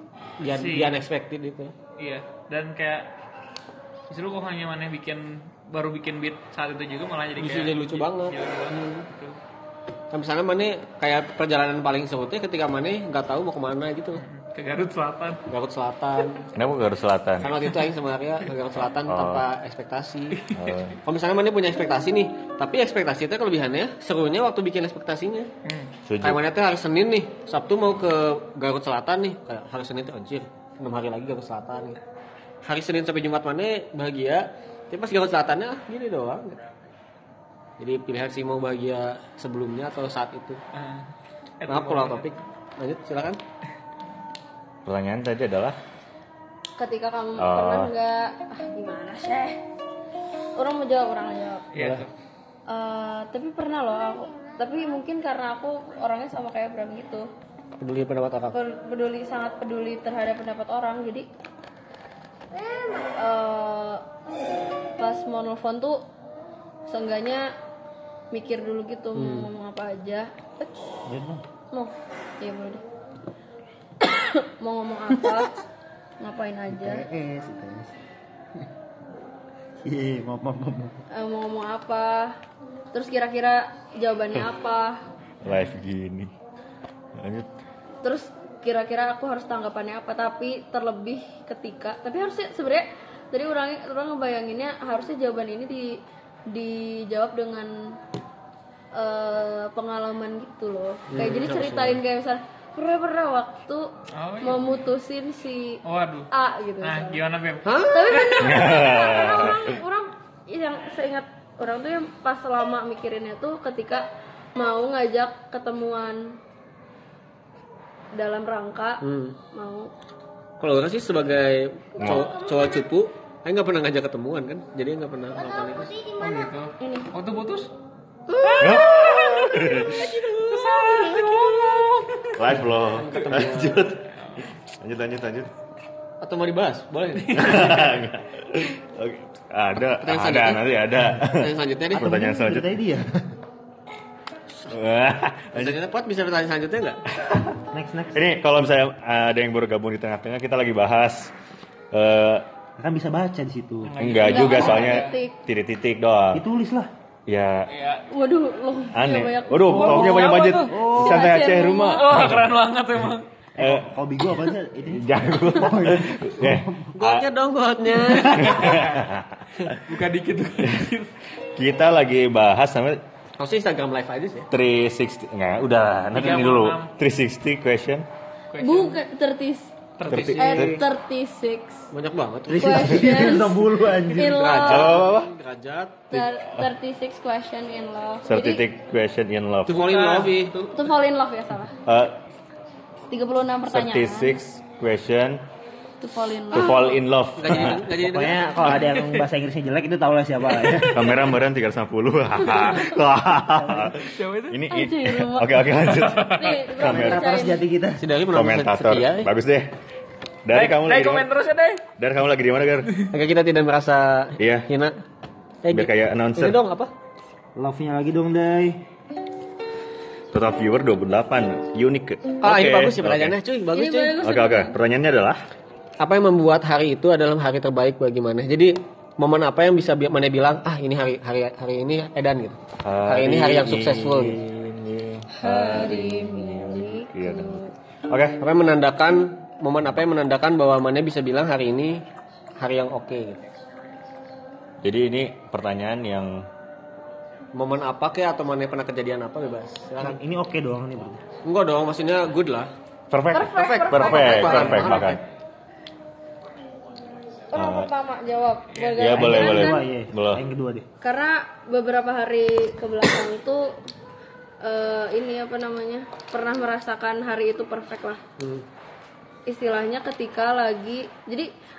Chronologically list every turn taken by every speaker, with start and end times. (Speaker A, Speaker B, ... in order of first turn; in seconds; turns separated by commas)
Speaker A: 0.4-1.7, Speaker B: 0.4-1.0, Speaker B: 2.0-3.1, Speaker B: 4.1-9.4, Speaker A: 7.4-9.0, Speaker A: 10.1-14.2, Speaker B: 14.1-15.4, Speaker A: 15.5-16.5, Speaker C: 16.5-17.6, Speaker A: 17.4-20.5, Speaker C: 19.1-19.4, Speaker B: 20.4-20.7, Speaker C: 20.5-21.0, Speaker A: 21.0-25.5, Speaker B: 25.6-25.9, Speaker C: 26.1-26.4, Speaker A: 26.2-32.0, Speaker A: 32.6-36.6, Speaker A: 37.8-40.6, Speaker B: 40.7-42.4, Speaker A: 41.7-43.4, Speaker C: 44.8-45.8, Speaker D: 46.8-49.6, Speaker C: 47.4-47.9, Speaker D: 50.5-51.7, Speaker B: 51.7-52.1, Speaker E: 51.8-52.0, Speaker D: 52.7-57.3, Speaker F: 53.9-55.0, Speaker A: 57.8-58.5, Speaker D: 58.5-61.3, Speaker F: 62.5-63.2, Speaker D: 63.1-64.0, Speaker D: 65.0-66.0, Speaker D: 66.9-67.5, Speaker D: 68.3-70.3, Speaker A: 69.1-69.5, Speaker E: 71.0-71.4, Speaker D: 71.7-72.8, Speaker D: 74.0-75.6, Speaker D: 76.2-77.0, Speaker E: 76.7-77.9, Speaker E: 79.8-81.0, Speaker D: 81.1-82.4, Speaker D: 82.9-85.0, Speaker C: 85.4-86.3, Speaker C: 87.2-87.5, Speaker D: 88.0-98.0, Speaker D: 98.9-103.9, Speaker A: 101.1-102.0, Speaker B: 104.1-104.7, Speaker D: 104.4-107.2, Speaker B: 105.8-106.3, Speaker B: 106.8-108.6, Speaker A: 107.6-108.2, Speaker D: 107.9-116.4, Speaker C: 108.3-109.8, Speaker D: 118.1-119.9, Speaker A: 119.0-119.4, Speaker A: 120.6-125.9, Speaker C: 122.0-122.3, Speaker F: 122.0-122.8, Speaker F: 125.3-126.5, Speaker B: 126.2-127.7, Speaker D: 126.8-127.1, Speaker A: 128.3-129.3, Speaker B: 128.4-132.4, Speaker C: 128.6-130.0, Speaker A: 129.9-131.1, Speaker F: 130.8-131.7, Speaker C: 132.3-135.5, Speaker A: 132.8-133.9, Speaker A: 136.2-137.9, Speaker B: 137.2-137.6, Speaker C: 137.3-142.7, Speaker A: 140.0-142.2, Speaker E: 141.9-143.3, Speaker C: 144.7-145.8, Speaker A: 145.5-147.0, Speaker C: 147.2-147.5, Speaker E: 147.7-148.2, Speaker C: 148.1-151.3, Speaker C: 151.9-152.4, Speaker E: 152.8-153.9, Speaker B: 153.8-155.2, Speaker C: 154.0-156.4, Speaker D: 154.2-155.3, Speaker E: 156.3-156.9, Speaker C: 157.3-157.7, Speaker B: 157.7-158.1, Speaker D: 158.1-162.1, Speaker C: 158.9-162.5, Speaker B: 159.7-160.8, Speaker E: 160.7-161.2, Speaker B: 161.9-163.3, Speaker E: 163.6-166.9, Speaker C: 163.6-163.9, Speaker C: 164.9-167.3, Speaker A: 166.9-168.8, Speaker C: 168.2-169.8, Speaker B: 168.6-169.0, Speaker B: 169.8-171.1, Speaker C: 170.6-170.9, Speaker C: 171.6-173.0, Speaker A: 173.4-174.5, Speaker C: 174.5-178.1, Speaker B: 176.1-176.9, Speaker B: 178.5-179.0, Speaker D: 178.6-179.7, Speaker B: 180.0-180.6, Speaker C: 180.1-180.8, Speaker A: 180.1-180.8, Speaker D: 180.3-181.9, Speaker A: 181.9-183.3, Speaker E: 182.5-184.6, Speaker D: 182.6-185.0, Speaker A: 184.2-186.2, Speaker C: 184.6-185.3, Speaker D: 186.1-188.6, Speaker C: 188.2-189.8, Speaker A: 189.6-190.5, Speaker B: 189.7-190.8, Speaker D: 190.7-191.7, Speaker C: 191.8-192.2, Speaker D: 193.1-194.4, Speaker C: 193.7-195.4, Speaker D: 196.0-197.0, Speaker C: 196.5-197.8, Speaker A: 197.4-198.4, Speaker E: 197.9-201.3, Speaker B: 198.6-199.3, Speaker C: 200.9-207.2, Speaker E: 203.6-203.9, Speaker B: 204.0-204.6, Speaker D: 204.7-207.6, Speaker B: 206.1-206.5, Speaker E: 206.8-208.0, Speaker A: 208.0-209.3, Speaker C: 208.3-209.7, Speaker C: 210.4-211.3, Speaker B: 210.5-211.8, Speaker C: 212.0-213.0, Speaker A: 213.1-214.9, Speaker C: 214.4-214.7, Speaker A: 215.6-216.9, Speaker C: 215.7-216.6, Speaker E: 217.6-218.8, Speaker C: 220.3-223.3, Speaker A: 222.4-224.2, Speaker D: 223.7-224.8, Speaker C: 224.2-225.4, Speaker A: 226.0-234.4, Speaker C: 232.8-238.4, Speaker D: 235.3-237.7, Speaker A: 238.4-242.0, Speaker A: 242.6-243.4, Speaker C: 244.8-246.5, Speaker A: 247.5-250.2, Speaker E: 250.0-251.2, Speaker A: 251.4-252.7, Speaker C: 253.1-255.2, Speaker D: 253.3-255.1, Speaker A: 253.4-255.2, Speaker D: 257.5-259.9, Speaker C: 257.5-257.9, Speaker B: 258.7-259.1, Speaker C: 259.0-260.4, Speaker E: 259.1-260.9, Speaker D: 261.0-263.8, Speaker D: 264.6-268.2, Speaker A: 268.4-268.6, Speaker D: 269.5-271.5